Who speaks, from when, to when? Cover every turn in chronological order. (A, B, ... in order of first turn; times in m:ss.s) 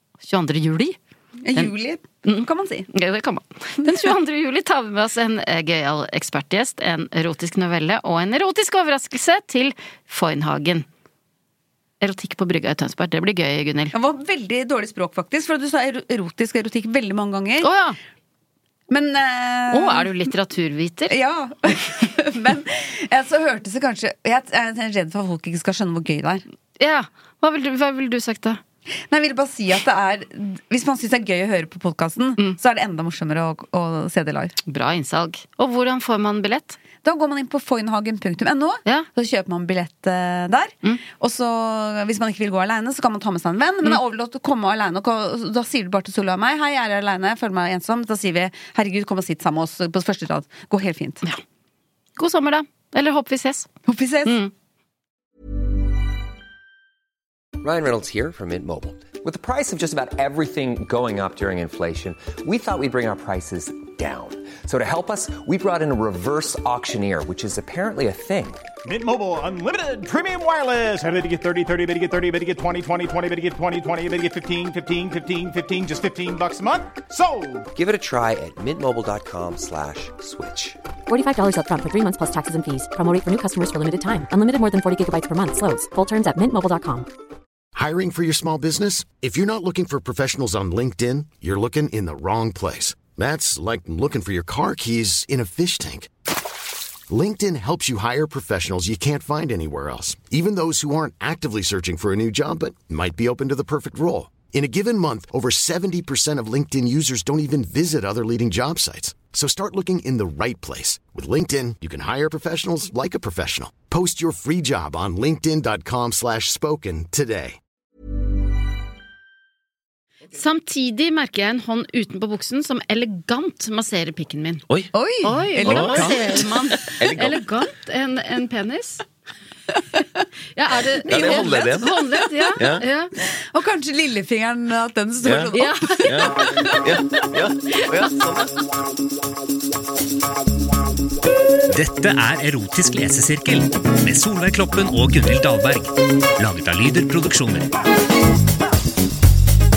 0:00.2-0:01.0 A
0:01.4-0:02.9 B
0:02.9-0:10.8 A
0:12.0-0:14.0 A
0:13.9-0:17.7 B
0:17.6-0:18.0 A
0:18.9-0:20.1 B
0:19.7-0:21.1 A
0:21.1-0:26.4 B
0:26.8-0:28.6 A
0:29.1-0:34.6 B
0:34.7-0:36.8 A
0:37.0-0:51.2 B
0:52.2-0:53.7 A
0:53.9-0:54.4 B
0:54.3-0:54.5 A
0:57.6-1:08.6 C
1:08.8-1:17.7 D
1:17.7-1:20.8 C
1:21.1-1:27.1 E
1:27.7-1:36.1 F
1:37.1-1:57.6 F
2:00.3-2:04.6 A
2:04.9-2:06.5 B
2:05.2-2:09.0 A
2:05.6-2:06.2 G
2:06.8-2:07.4 G
2:10.6-2:13.1 A
2:11.1-2:12.0 B
2:11.1-2:12.0 G
2:12.6-2:12.8 G
2:13.5-2:16.8 B
2:15.2-2:15.5 G
2:15.5-2:16.3 A
2:16.0-2:18.5 G
2:21.7-2:27.7 H